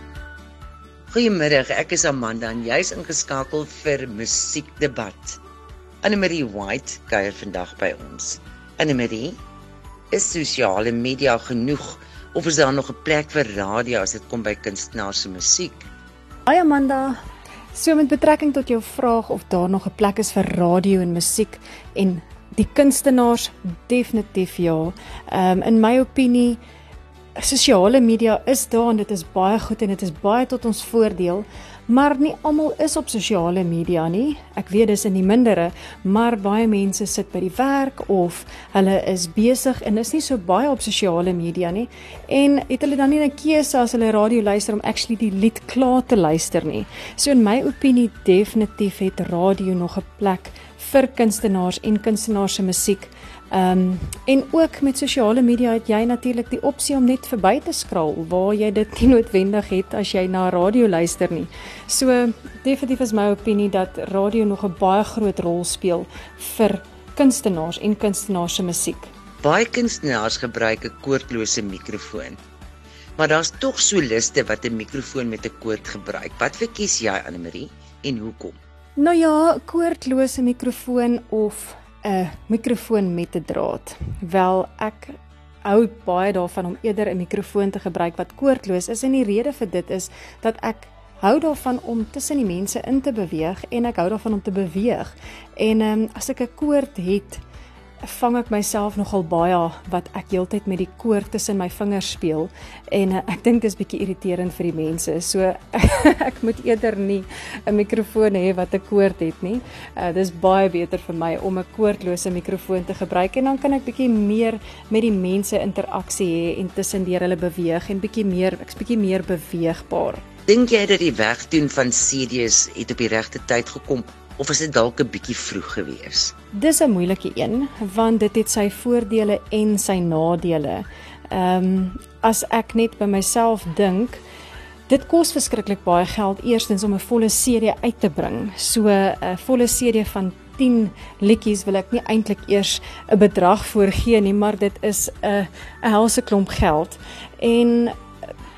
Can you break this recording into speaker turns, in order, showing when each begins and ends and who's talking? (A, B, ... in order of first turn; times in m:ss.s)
0:01.1-0:05.4 A
0:06.0-0:09.4 A
0:10.1-0:15.9 A
0:16.4-0:17.2 B
0:17.7-0:26.6 B
0:27.4-1:09.1 B
1:09.4-1:12.4 A
1:13.2-1:18.6 A
1:19.0-1:37.4 B
1:38.0-2:00.2 B
2:00.5-2:06.3 A
2:06.5-2:14.2 B
2:14.9-2:28.0 B